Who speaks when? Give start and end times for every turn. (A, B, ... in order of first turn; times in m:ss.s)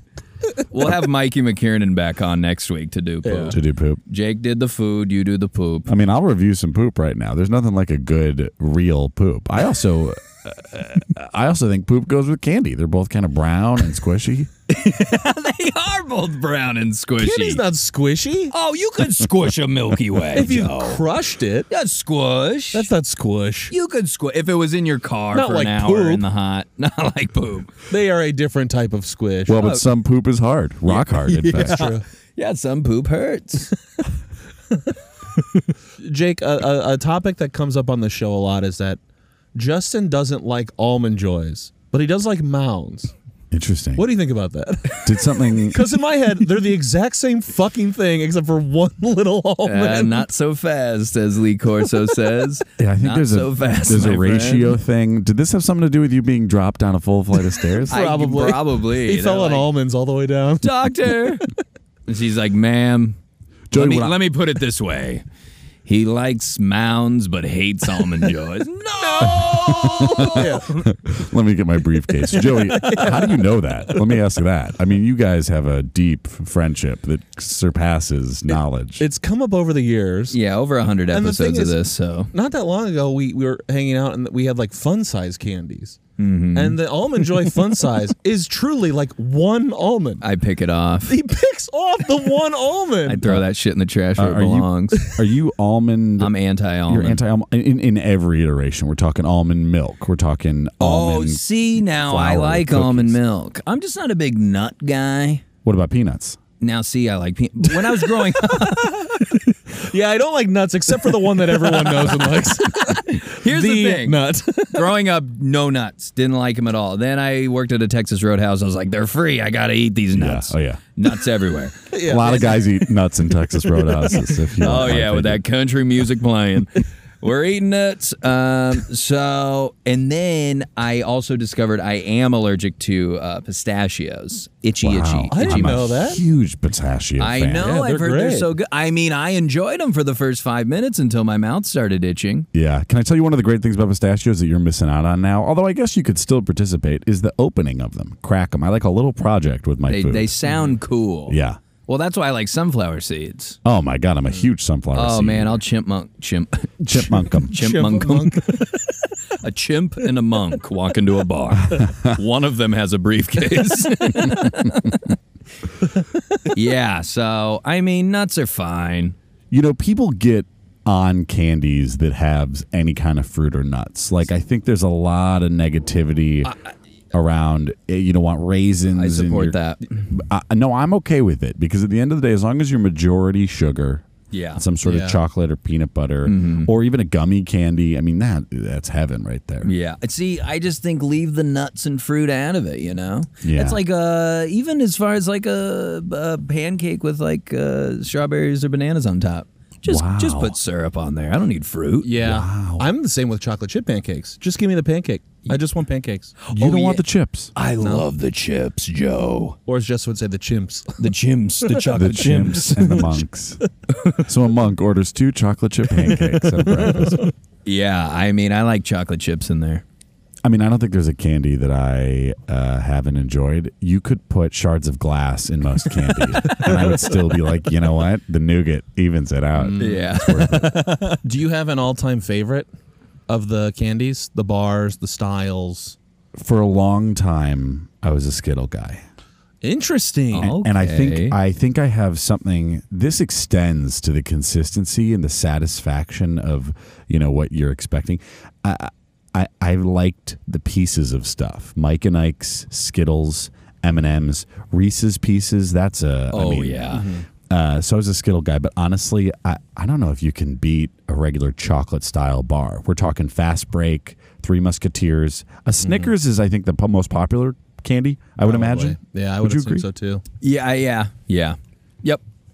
0:00.7-0:06.0 A
0:03.2-0:03.6 B
0:03.5-0:04.0 C
0:05.9-0:14.5 C
0:14.7-0:17.6 A
0:17.2-0:18.5 B
0:18.5-0:21.0 A
0:20.3-0:21.7 B
0:21.7-0:22.9 A
0:22.7-0:23.7 B
0:23.7-0:27.8 A
0:25.3-0:26.2 B
0:27.9-0:29.6 B
0:29.5-0:31.9 C
0:29.6-0:29.8 A
0:30.9-0:33.7 A
0:31.5-0:32.0 B
0:36.0-0:39.0 B
0:39.5-0:43.1 B
0:43.5-0:44.0 C
0:44.0-0:50.3 B
0:45.0-0:45.9 C
0:49.6-0:54.8 A
0:52.8-0:58.0 C
0:57.8-1:00.9 B
0:57.9-0:59.7 A
1:00.6-1:01.4 A
1:02.1-1:03.2 A
1:03.7-1:04.2 C
1:03.7-1:05.2 A
1:05.8-1:10.8 A
1:09.2-1:19.0 C
1:10.2-1:10.8 B
1:12.3-1:14.1 B
1:19.0-1:20.4 B
1:20.3-1:22.3 A
1:21.1-1:26.0 B
1:26.2-1:26.8 A
1:26.5-1:30.2 B
1:30.2-1:31.1 A
1:31.1-1:33.3 B
1:33.0-1:35.1 A
1:34.2-1:36.3 C
1:36.2-1:37.2 A
1:36.9-1:43.2 C
1:40.8-1:45.4 A
1:45.6-1:46.4 C
1:46.6-1:49.1 A
1:47.8-1:54.9 B
1:52.7-1:54.2 A
1:54.7-2:01.8 A
2:00.1-2:00.8 C
2:01.9-2:03.0 B
2:02.0-2:05.4 C
2:03.5-2:04.3 B
2:04.6-2:15.9 A
2:14.8-2:17.7 C
2:15.3-2:16.2 B
2:17.2-2:22.5 A
2:17.6-2:18.5 B
2:22.5-2:30.4 C
2:29.9-2:33.6 A
2:31.3-2:31.6 C
2:33.6-2:35.6 C
2:34.9-2:38.7 A
2:36.8-2:37.6 C
2:37.3-2:39.0 B
2:39.4-2:45.1 A
2:41.7-2:42.2 C
2:46.4-2:49.2 A
2:49.5-2:56.5 C
2:57.1-2:59.6 C
2:58.9-3:00.1 A
3:00.1-3:04.0 C
3:04.3-3:04.6 A
3:04.6-3:09.7 C
3:04.8-3:05.2 B
3:06.2-3:06.7 A
3:09.6-3:22.1 A
3:13.4-3:13.8 C
3:19.8-3:20.6 C
3:22.0-3:26.4 B
3:22.2-3:22.9 C
3:26.4-3:27.0 A
3:26.5-3:27.5 C
3:27.5-3:29.6 A
3:27.8-3:28.1 B
3:29.6-3:31.1 B
3:31.0-3:33.2 A
3:31.9-3:33.6 C
3:34.2-3:37.3 C
3:36.0-3:37.3 B
3:37.6-3:39.8 A
3:40.4-3:50.8 C
3:46.3-3:47.2 B
3:49.6-3:52.7 B
3:49.8-3:50.9 A
3:53.3-3:56.0 B
3:56.4-3:59.0 C
3:59.6-4:00.5 B
4:00.3-4:01.4 A
4:00.4-4:29.8 C
4:16.3-4:17.1 A
4:16.9-4:17.2 B
4:25.8-4:26.1 B
4:28.4-4:30.2 B
4:30.4-4:32.2 A